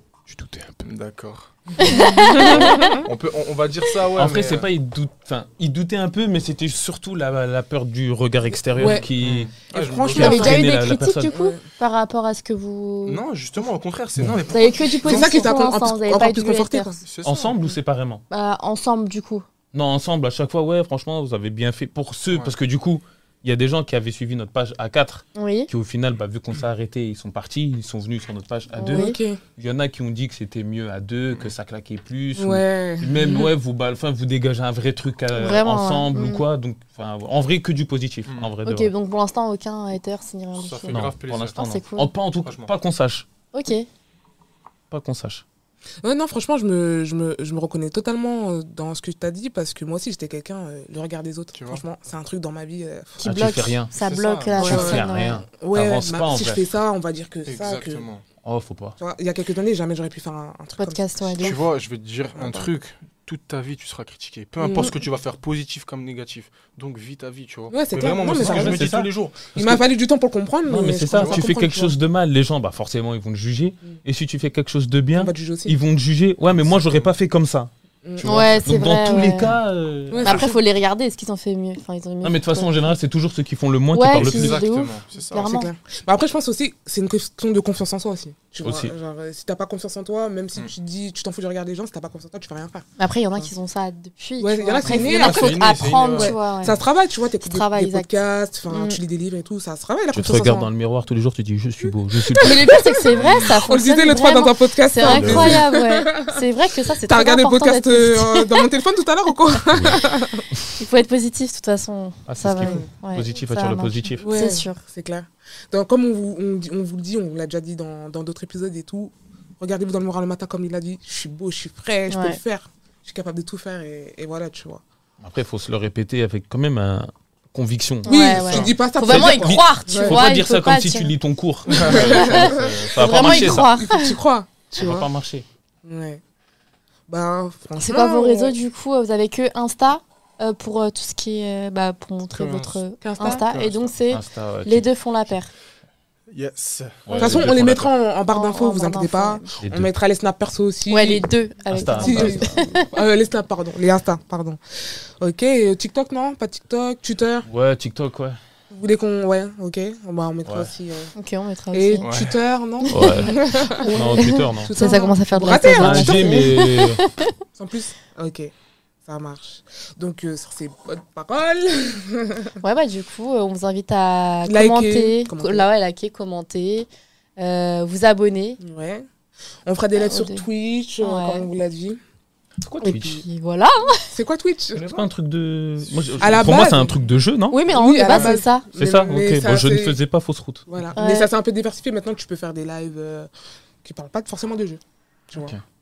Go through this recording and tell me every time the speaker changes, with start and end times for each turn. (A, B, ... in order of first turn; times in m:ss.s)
0:00.3-0:00.8 A
0:00.8-0:04.7 B
0:01.8-0:03.0 C
0:01.8-0:03.0 D
0:04.2-0:09.5 A
0:08.8-0:10.6 B
0:08.8-0:09.1 C
0:09.7-0:11.6 C
0:10.1-0:11.3 A
0:10.1-0:13.2 D
0:13.0-0:15.6 B
0:14.5-0:17.0 D
0:14.8-0:17.0 C
0:17.0-0:17.6 B
0:17.2-0:18.2 A
0:18.3-0:19.4 D
0:19.7-0:38.9 A
0:25.3-0:25.7 D
0:28.8-0:29.2 D
0:28.9-0:29.4 C
0:32.4-0:33.5 C
0:35.3-0:36.4 D
0:38.3-0:38.5 B
0:38.6-0:42.1 D
0:40.6-0:41.6 B
0:40.9-0:43.2 A
0:42.4-0:42.7 B
0:43.5-0:43.9 D
0:44.9-0:45.4 A
0:46.0-0:53.4 C
0:51.5-0:51.8 B
0:53.2-0:55.4 D
0:53.2-0:53.9 A
0:53.9-0:54.7 B
0:54.6-0:56.6 A
0:54.6-0:58.1 C
0:57.4-0:58.2 B
0:58.4-0:59.0 A
0:59.0-1:01.6 C
1:00.8-1:01.6 D
1:01.4-1:09.5 B
1:02.4-1:02.7 C
1:04.6-1:04.9 C
1:07.7-1:08.9 C
1:08.3-1:09.8 A
1:09.5-1:11.9 C
1:10.7-1:20.4 A
1:11.1-1:11.4 B
1:15.2-1:15.8 C
1:16.6-1:17.1 B
1:18.0-1:18.4 C
1:18.2-1:19.5 D
1:20.1-1:20.5 C
1:20.2-1:22.9 D
1:22.2-1:24.6 A
1:23.9-1:25.7 D
1:24.2-1:25.4 B
1:25.3-1:32.8 C
1:28.6-1:28.9 A
1:33.0-1:36.8 D
1:34.4-1:40.7 C
1:34.8-1:36.8 B
1:37.4-1:38.1 D
1:38.7-1:39.0 D
1:40.1-1:42.8 A
1:42.4-1:48.6 D
1:42.4-1:46.4 C
1:43.1-1:43.6 B
1:45.0-1:45.6 B
1:47.0-1:50.5 C
1:49.7-1:50.0 A
1:50.8-1:54.8 D
1:52.3-1:54.3 A
1:52.6-1:52.9 C
1:54.2-2:04.8 C
2:02.1-2:02.4 D
2:05.2-2:08.2 A
2:08.0-2:11.1 D
2:08.0-2:10.2 C
2:08.3-2:08.7 B
2:09.0-2:13.7 A
2:11.8-2:15.1 C
2:11.9-2:14.2 D
2:14.8-2:15.4 A
2:15.8-2:16.2 C
2:17.1-2:18.6 C
2:17.8-2:25.5 D
2:22.3-2:23.9 B
2:23.0-2:23.5 C
2:24.1-2:24.9 A
2:26.3-2:27.4 B
2:27.0-2:27.9 A
2:27.2-2:31.2 C
2:28.3-2:29.5 D
2:29.6-2:29.9 A
2:30.9-2:32.9 D
2:31.7-2:32.6 A
2:31.9-2:34.6 C
2:35.2-2:37.5 C
2:37.4-2:38.4 A
2:38.7-2:41.1 C
2:40.4-2:40.7 A
2:41.1-2:42.1 D
2:41.7-2:46.6 C
2:42.0-2:42.4 B
2:42.8-2:47.3 D
2:42.9-2:44.8 A
2:45.6-2:47.0 A
2:47.5-2:48.5 C
2:49.0-2:52.6 C
2:52.6-2:58.6 D
2:54.4-2:55.7 C
2:58.6-2:59.1 C
2:59.6-3:02.0 C
3:00.0-3:00.4 D
3:01.0-3:01.5 D
3:02.6-3:03.2 A
3:02.8-3:04.1 D
3:02.9-3:03.2 C
3:04.1-3:05.0 C
3:04.7-3:05.1 B
3:04.8-3:10.7 A
3:05.8-3:06.5 B
3:06.2-3:07.0 C
3:07.5-3:08.6 D
3:07.7-3:10.0 C
3:10.7-3:13.3 C
3:11.0-3:11.3 D
3:13.8-3:15.5 C